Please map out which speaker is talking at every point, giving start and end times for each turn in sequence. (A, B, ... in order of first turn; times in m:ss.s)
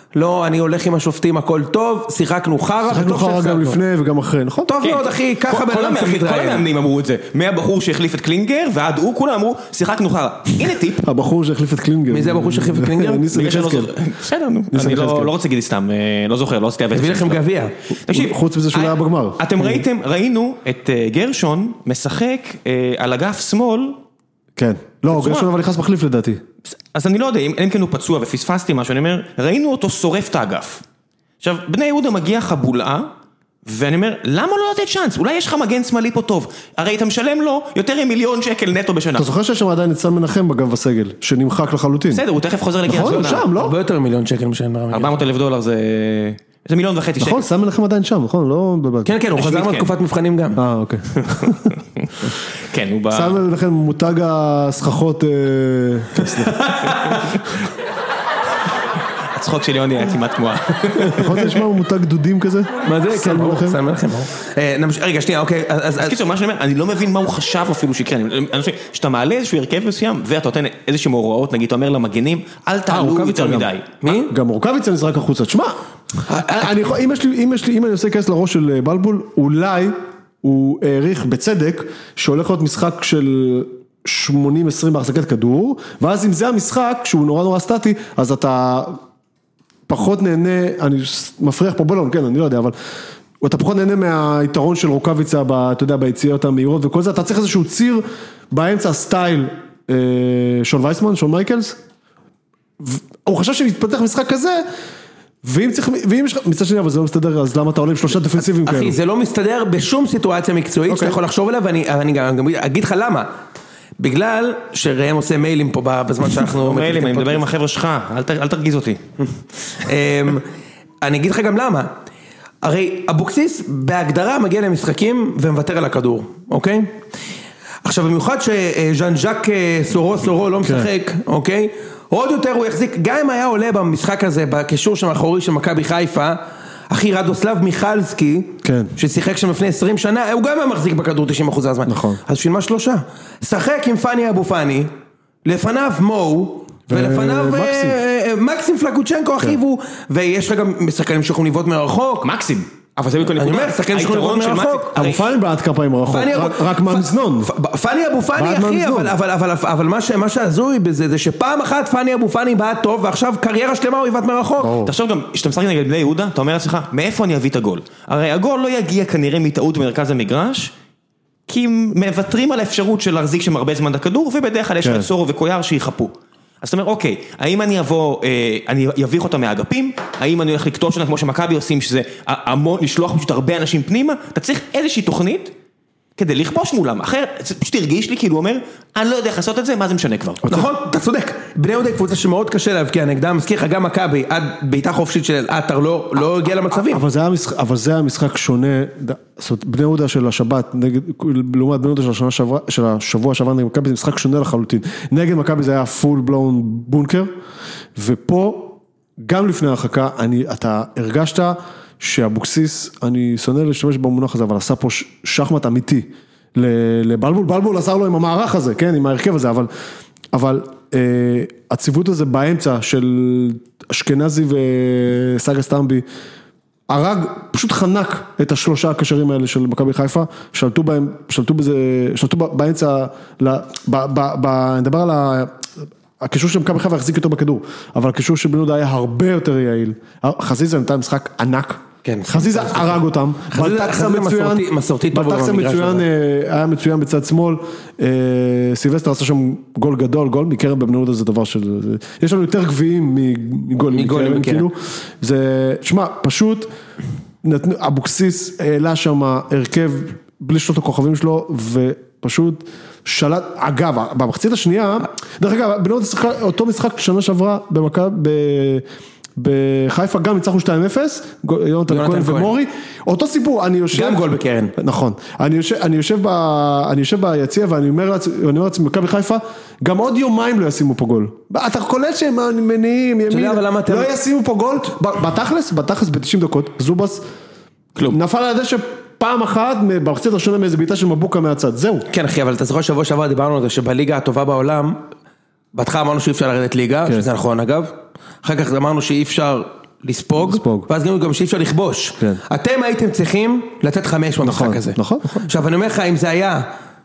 0:00.1-0:03.8 A
0:02.9-0:04.7 B
0:04.6-0:06.6 A
0:04.8-0:11.0 C
0:11.0-0:13.9 B
0:12.1-0:13.3 A
0:13.3-0:24.0 C
0:14.7-0:15.3 B
0:16.9-0:17.7 A
0:18.1-0:19.8 B
0:24.6-0:26.4 B
0:25.1-0:25.5 C
0:26.6-0:30.8 C
0:31.4-0:33.1 C
0:33.6-0:39.3 C
0:39.2-0:42.2 B
0:42.1-0:43.5 C
0:42.9-0:43.8 B
0:43.0-0:45.2 A
0:44.9-0:47.5 C
0:47.2-0:49.1 B
0:49.0-0:50.6 A
0:49.4-0:49.9 C
0:50.6-0:51.7 B
0:51.2-0:53.4 C
0:53.1-0:56.8 B
0:56.6-0:57.2 A
0:59.4-1:01.6 C
1:01.0-1:03.8 B
1:02.8-1:06.2 A
1:06.0-1:14.0 C
1:12.9-1:15.8 B
1:14.0-1:14.3 A
1:16.3-1:16.6 A
1:16.3-1:29.0 B
1:29.9-1:32.7 B
1:33.4-1:41.8 B
1:42.8-1:44.6 B
1:45.4-1:49.0 B
1:48.6-1:53.3 A
1:50.9-1:51.2 B
1:54.0-1:57.4 A
1:56.4-1:59.0 C
1:59.2-2:00.5 A
2:01.0-2:01.9 A
2:02.6-2:07.0 A
2:07.8-2:24.9 A
2:10.6-2:10.9 B
2:18.6-2:18.9 B
2:21.9-2:22.2 B
2:25.4-2:32.3 A
2:26.9-2:28.0 B
2:32.2-2:35.3 C
2:33.4-2:35.1 A
2:35.0-2:37.5 B
2:36.1-2:44.8 A
2:38.4-2:39.1 B
2:44.6-2:44.9 B
2:44.8-2:50.7 C
2:51.5-3:05.5 C
2:54.8-2:55.1 B
3:06.2-3:10.4 C
3:10.4-3:17.0 A
3:16.7-3:27.3 B
3:28.0-3:39.7 B
3:40.3-3:46.0 B
3:46.9-3:55.6 B
3:56.2-4:16.7 B
4:02.0-4:06.0 A
4:13.9-4:14.7 A
4:17.4-4:28.8 B
4:29.4-4:47.2 B
4:31.9-4:32.6 A
4:33.9-4:34.7 A
4:43.3-4:44.1 A
4:48.1-4:52.1 B
4:52.1-4:55.0 A
4:55.7-5:06.7 A
5:00.4-5:00.9 B
5:04.4-5:05.5 B